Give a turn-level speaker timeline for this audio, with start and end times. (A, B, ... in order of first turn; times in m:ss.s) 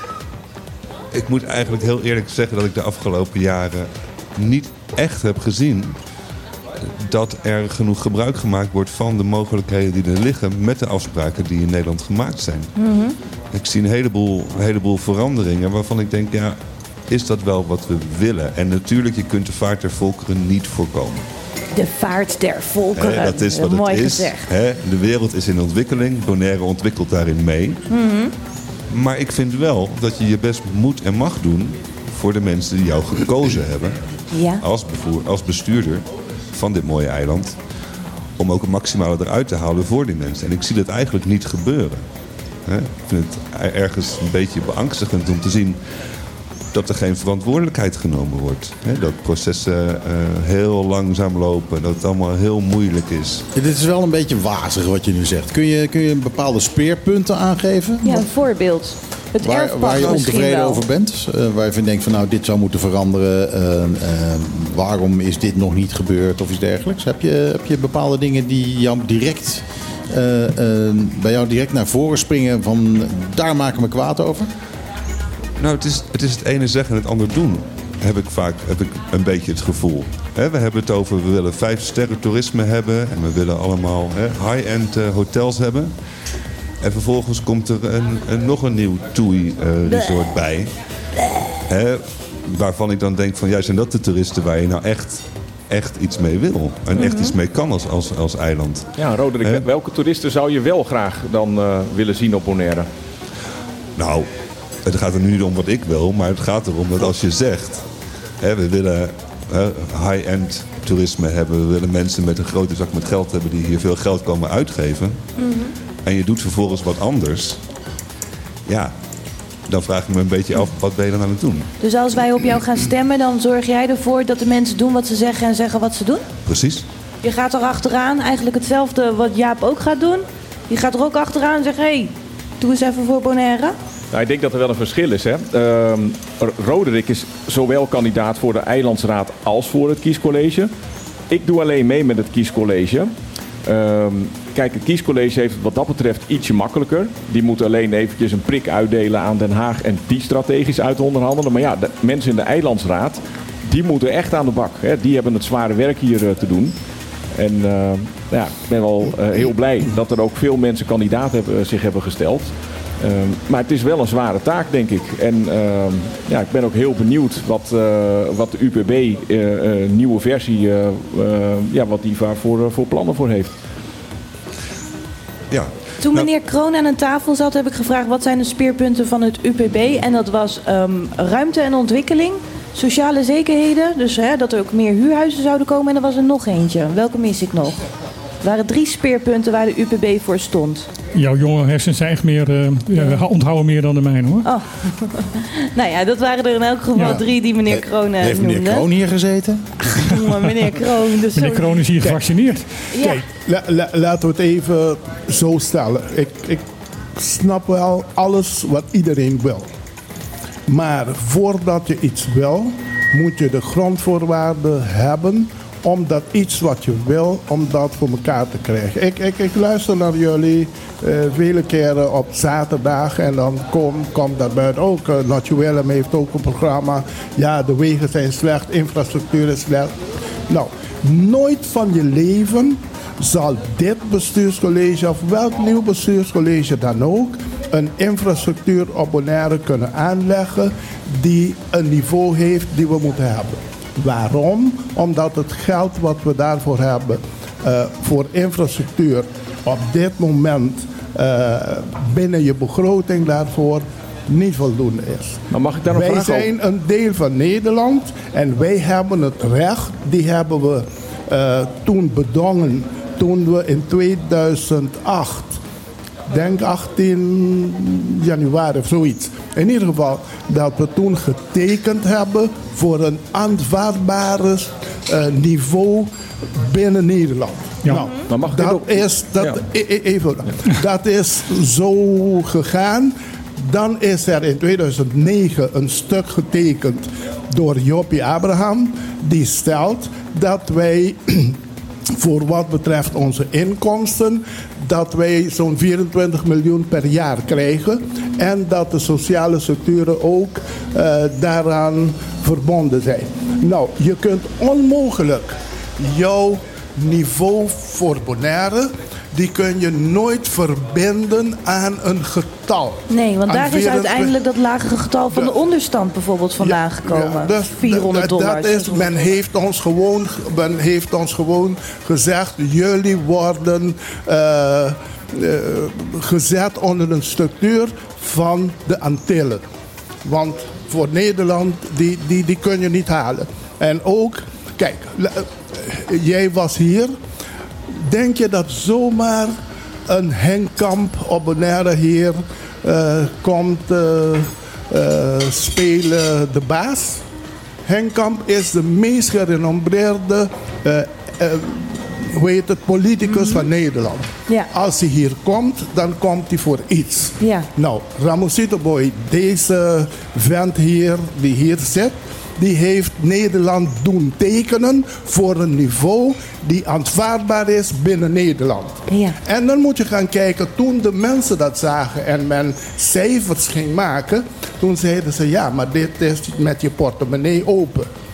0:01.1-0:06.0 A
0:06.8-0:12.7 A
0:12.8-0:13.1 B
0:13.5-0:21.2 A
0:21.7-0:24.5 B
0:23.0-0:27.8 A
0:27.9-0:28.3 B
0:28.9-0:34.0 A
0:34.3-0:34.6 B
0:34.6-0:37.6 A
0:38.4-0:42.0 A
0:42.7-0:45.8 A
0:46.7-0:53.4 A
0:53.5-0:58.3 C
0:58.0-1:00.8 B
0:59.4-1:14.5 C
1:15.6-1:25.9 A
1:26.8-1:30.7 A
1:29.9-1:30.3 B
1:31.7-1:39.7 A
1:36.9-1:37.4 B
1:39.0-1:42.9 D
1:44.0-1:44.3 A
1:44.8-1:47.9 A
1:48.4-1:55.2 A
1:55.4-1:55.7 B
1:56.0-1:57.6 A
1:58.7-1:59.0 A
1:59.7-2:01.7 A
2:01.8-2:06.2 B
2:06.4-2:06.9 A
2:07.2-2:13.8 B
2:14.1-2:20.7 D
2:21.3-2:23.1 D
2:23.6-2:36.8 D
2:37.4-2:53.5 D
2:55.5-2:56.3 A
2:56.0-3:07.8 B
3:08.4-3:10.9 B
3:11.2-3:14.5 E
3:12.9-3:13.2 B
3:14.4-3:18.8 B
3:17.0-3:17.2 E
3:17.7-3:20.6 C
3:19.8-3:21.8 B
3:21.4-3:22.7 E
3:22.9-3:23.2 B
3:23.0-3:29.7 F
3:30.7-3:50.0 F
3:50.5-4:25.6 F
4:15.5-4:16.5 D
4:26.3-4:51.6 F
4:38.3-4:39.6 D
4:52.2-5:14.4 F
5:13.1-5:19.0 B
5:16.6-5:29.6 F
5:30.2-5:37.1 F
5:37.9-5:39.6 F
5:40.1-5:47.2 F
5:47.8-6:18.1 F
5:53.3-5:53.6 B
5:57.4-5:57.7 B
6:09.1-6:09.4 B